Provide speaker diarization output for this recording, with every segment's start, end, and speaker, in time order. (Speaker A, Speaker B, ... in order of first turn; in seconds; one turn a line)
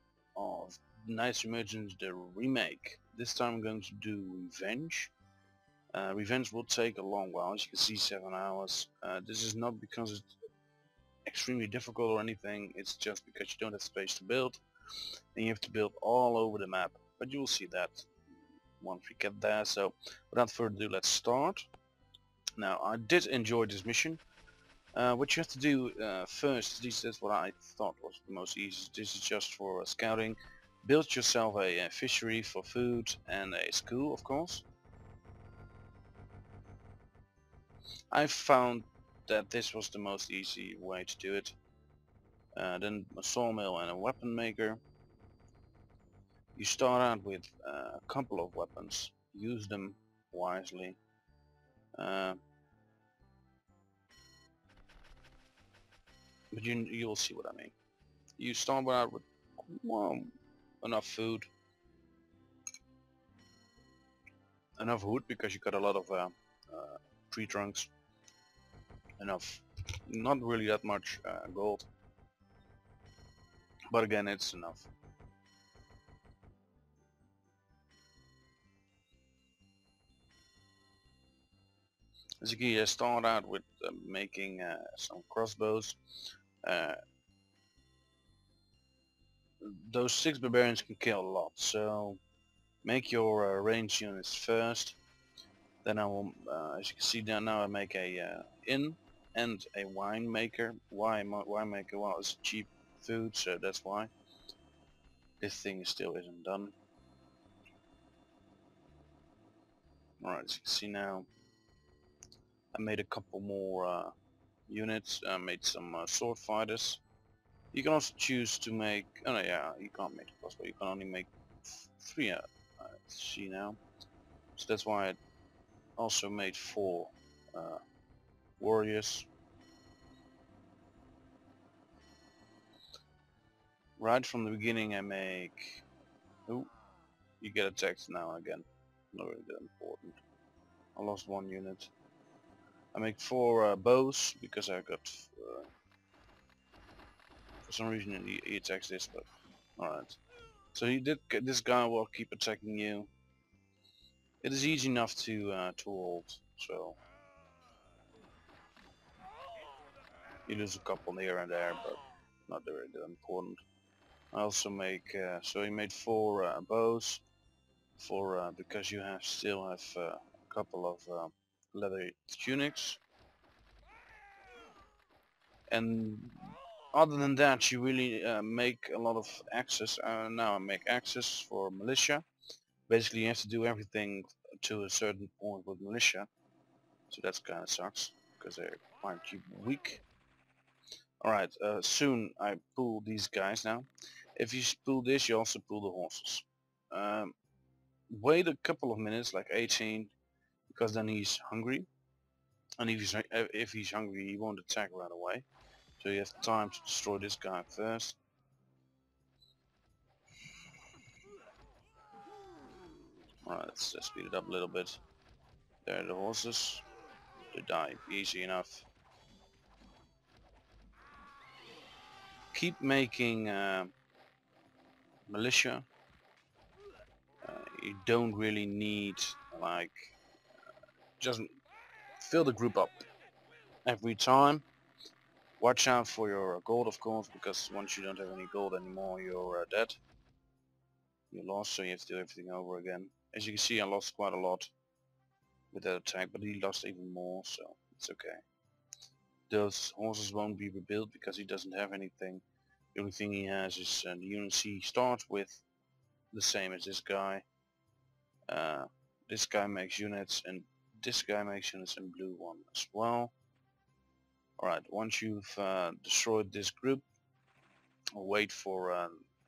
Speaker A: 0.3-5.1
Speaker A: 5.9-10.4
Speaker A: 11.3-18.1
Speaker A: 18.8-21.7
Speaker A: 22.6-24.2
Speaker A: 24.9-34.6
Speaker A: 38.1-41.5
Speaker A: 42.5-44.8
Speaker A: 46.5-51.0
Speaker A: 52.0-52.4
Speaker A: 56.5-57.7
Speaker A: 58.4-61.5
Speaker A: 64.8-67.9
Speaker A: 69.2-71.9
Speaker A: 73.9-74.9
Speaker A: 82.4-87.0
Speaker A: 89.6-92.2
Speaker A: 92.8-95.0
Speaker A: 95.8-104.1
Speaker A: 105.4-106.8
Speaker A: 110.2-111.3
Speaker A: 112.7-114.1
Speaker A: 114.7-117.0
Speaker A: 117.7-123.8
Speaker A: 124.6-125.2
Speaker A: 126.0-127.8
Speaker A: 128.6-129.3
Speaker A: 134.0-135.8
Speaker A: 137.4-140.2
Speaker A: 141.0-141.9
Speaker A: 142.9-145.7
Speaker A: 147.7-150.2
Speaker A: 150.7-153.1
Speaker A: 154.4-157.0
Speaker A: 160.5-163.6
Speaker A: 164.3-167.2
Speaker A: 168.0-173.0
Speaker A: 175.7-182.2
Speaker A: 182.9-186.3
Speaker A: 187.1-190.0
Speaker A: 191.2-197.3
Speaker A: 198.1-200.1
Speaker A: 200.7-201.9
Speaker A: 202.8-205.4
Speaker A: 206.0-208.2
Speaker A: 213.4-215.0
Speaker A: 215.9-216.8
Speaker A: 217.5-218.9
Speaker A: 222.5-223.9
Speaker A: 225.3-225.9
Speaker A: 227.4-230.2
Speaker A: 231.2-231.5
Speaker A: 232.2-233.1
Speaker A: 233.8-234.7
Speaker A: 235.6-240.0
Speaker A: 241.3-244.7
Speaker A: 245.7-248.4
Speaker A: 249.5-252.4
Speaker A: 252.9-255.7
Speaker A: 256.3-257.4
Speaker A: 258.5-263.4
Speaker A: 264.6-267.1
Speaker A: 268.1-269.2